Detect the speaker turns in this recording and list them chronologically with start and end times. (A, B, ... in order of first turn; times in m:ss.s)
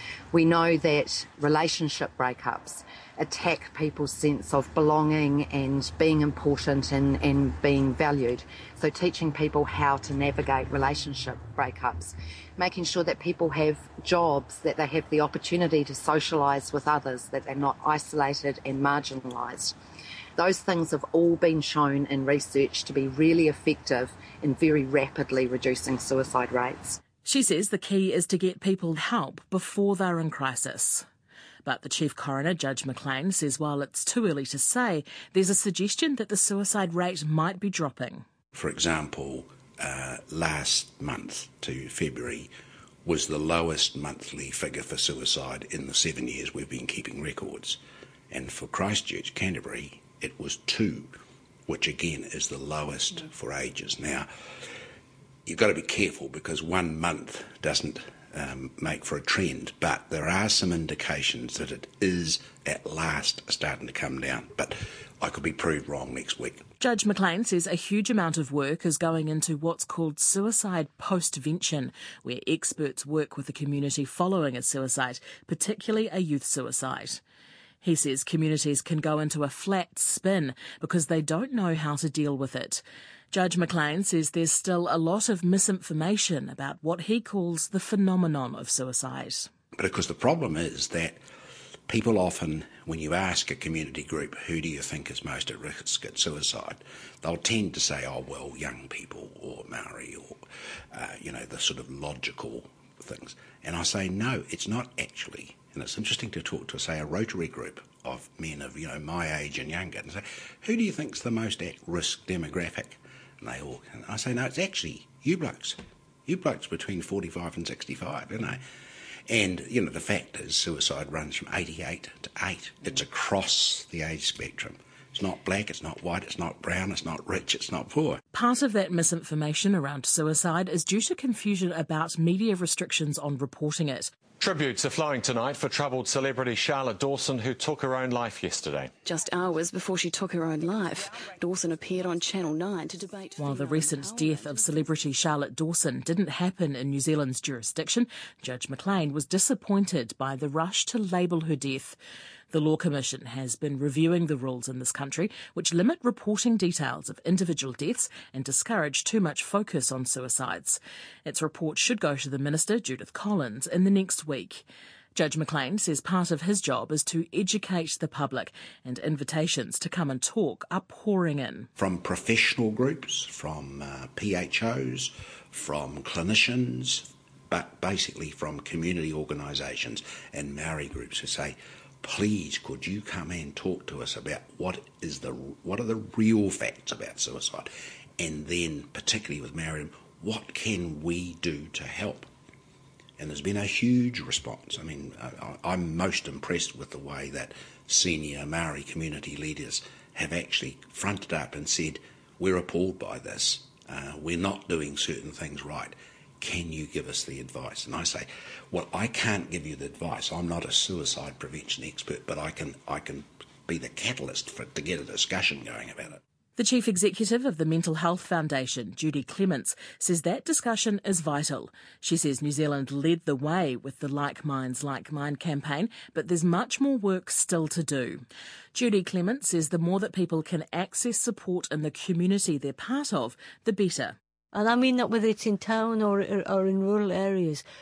0:00.3-0:19.7 A
0:20.4-0:27.0 A
0:27.2-0:31.0 B
0:31.6-0:38.2 B
0:38.5-0:42.5 C
0:43.0-0:47.8 C
0:48.3-0:51.1 C
0:51.7-0:54.3 C
0:55.4-1:06.7 C
1:06.8-1:17.2 B
1:17.8-1:29.5 B
1:29.7-1:31.2 C
1:31.9-1:40.4 C
1:40.9-1:58.6 C
1:59.3-2:08.2 C
2:08.3-2:14.1 B
2:14.4-2:18.9 D
2:19.0-2:24.7 E
2:23.4-2:32.0 B
2:32.5-2:44.6 B
2:45.1-2:51.7 B
2:51.8-3:12.3 C
3:13.2-3:36.2 C
3:36.6-3:48.2 B
3:48.7-3:54.2 B
3:54.5-3:57.6 F